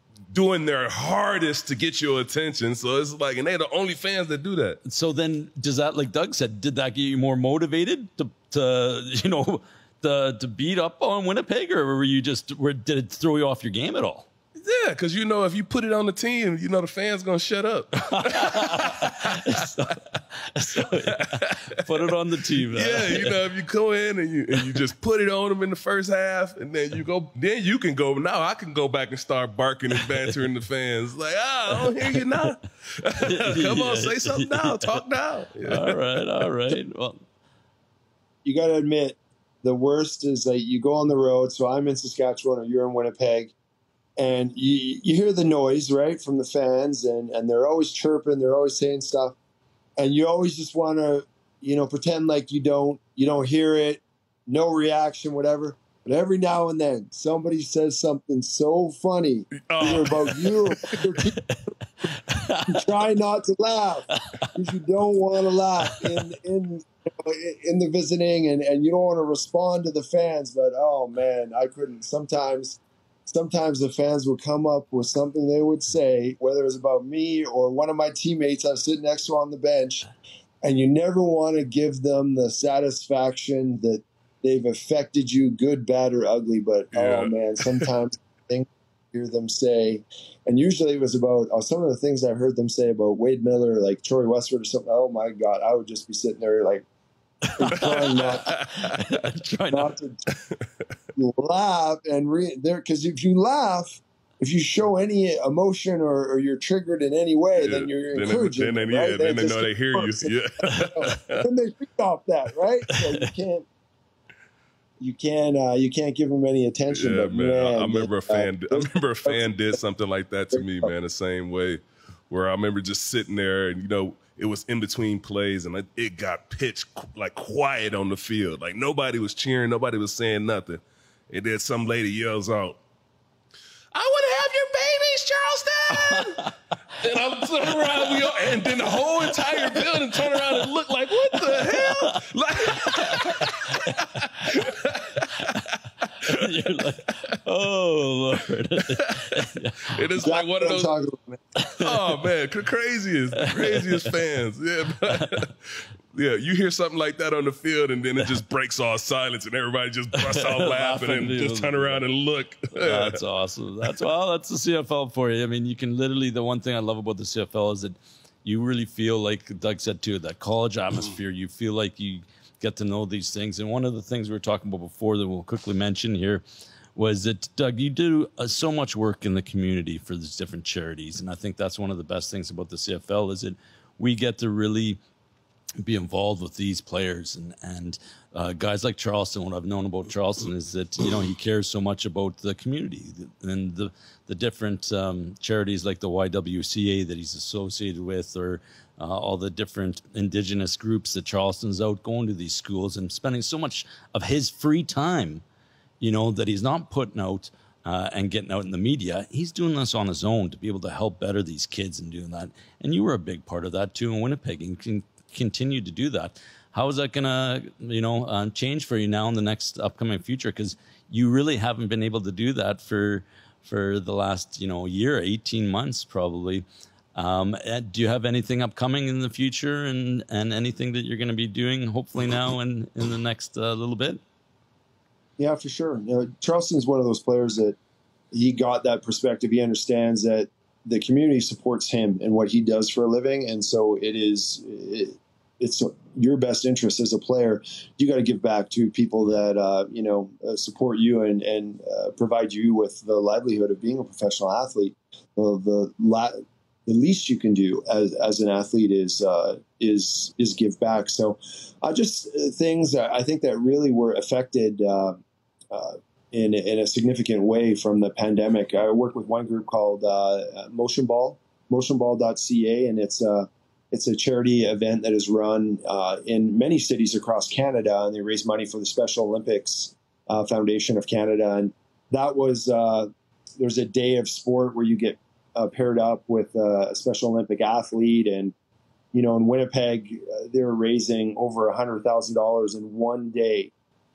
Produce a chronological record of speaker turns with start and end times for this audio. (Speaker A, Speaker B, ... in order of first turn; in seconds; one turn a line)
Speaker A: 0.3-4.8
Speaker B: 4.8-14.3
Speaker A: 14.6-19.6
Speaker B: 18.0-23.4
Speaker A: 20.9-21.6
Speaker A: 22.7-36.0
Speaker B: 30.1-30.4
Speaker B: 31.8-32.2
Speaker B: 33.2-35.0
Speaker B: 35.6-37.2
Speaker C: 38.4-43.5
Speaker C: 44.2-49.4
Speaker C: 50.0-61.4
Speaker A: 59.6-60.6
Speaker B: 61.5-62.8
Speaker C: 62.7-80.1
Speaker B: 64.2-64.5
Speaker C: 80.6-96.8
Speaker A: 86.9-87.9
Speaker B: 97.5-99.9
Speaker C: 97.6-98.5
Speaker A: 97.8-99.1
Speaker C: 99.7-100.2
Speaker C: 101.2-113.7
Speaker A: 107.6-111.5
Speaker C: 115.0-119.5
Speaker A: 116.9-132.8
Speaker C: 120.5-120.9
Speaker A: 133.9-136.5
Speaker B: 135.9-136.5
Speaker A: 137.0-145.6
Speaker B: 137.6-140.7
Speaker B: 141.3-144.2
Speaker B: 145.4-145.6
Speaker B: 146.2-150.0
Speaker A: 148.9-150.9
Speaker C: 150.2-151.4
Speaker B: 151.6-152.2
Speaker A: 151.8-155.5
Speaker B: 153.3-154.2
Speaker B: 155.0-155.4
Speaker A: 156.1-163.2
Speaker B: 160.2-162.1
Speaker B: 162.7-176.4
Speaker B: 176.9-185.0
Speaker B: 185.8-205.4
Speaker B: 206.0-234.2
Speaker C: 235.4-237.8
Speaker C: 238.3-288.5
Speaker C: 289.1-293.7